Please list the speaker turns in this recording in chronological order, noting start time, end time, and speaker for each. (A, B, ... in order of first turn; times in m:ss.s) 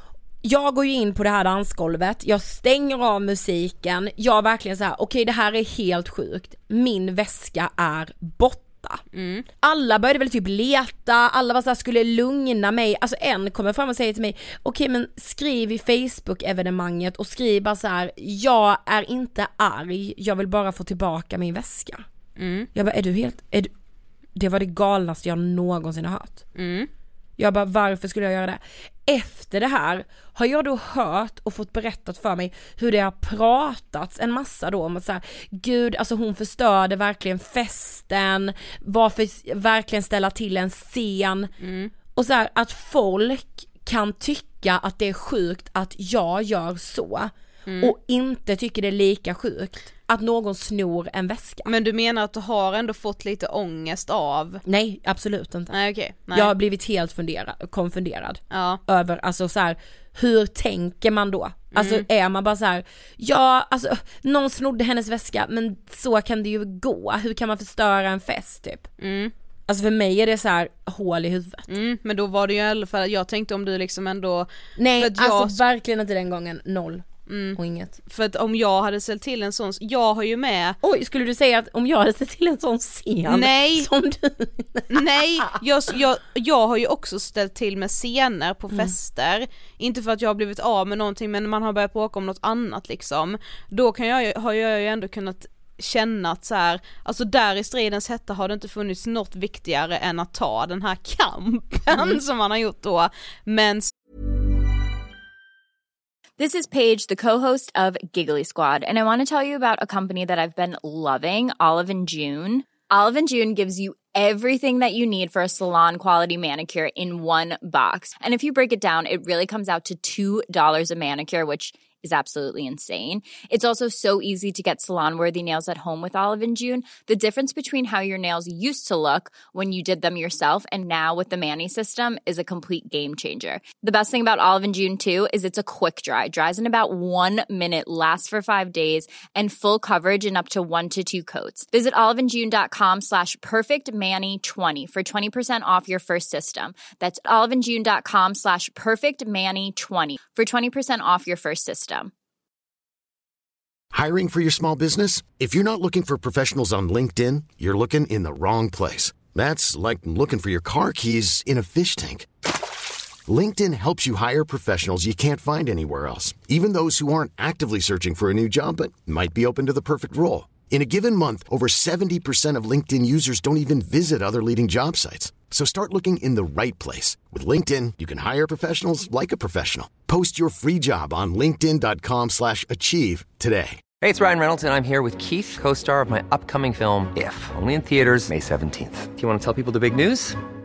0:00.4-0:09.0 A
0:09.1-0:09.5 B
0:09.6-0:22.0 A
0:22.4-0:22.7 B
0:22.7-0:23.7 A
0:24.4-0:26.4 A
0:26.6-0:26.9 B
0:27.4-0:41.5 A
0:41.6-0:41.9 B
0:42.2-0:51.7 A
0:47.7-0:47.9 B
0:51.7-0:54.6 B
0:54.6-0:55.8 A
0:55.7-0:56.5 B
0:56.3-1:08.9 A
0:58.5-0:58.8 B
1:01.7-1:02.1 B
1:09.0-1:09.3 B
1:09.7-1:11.7 A
1:11.7-1:15.6 B
1:14.8-1:18.0 A
1:17.3-1:17.6 B
1:18.1-1:20.8 B
1:20.8-1:25.6 A
1:23.3-1:23.9 B
1:24.9-1:43.9 B
1:41.9-1:42.2 A
1:46.4-2:32.1 C
2:33.9-2:42.3 D
2:43.3-3:03.8 D
3:04.0-3:10.4 E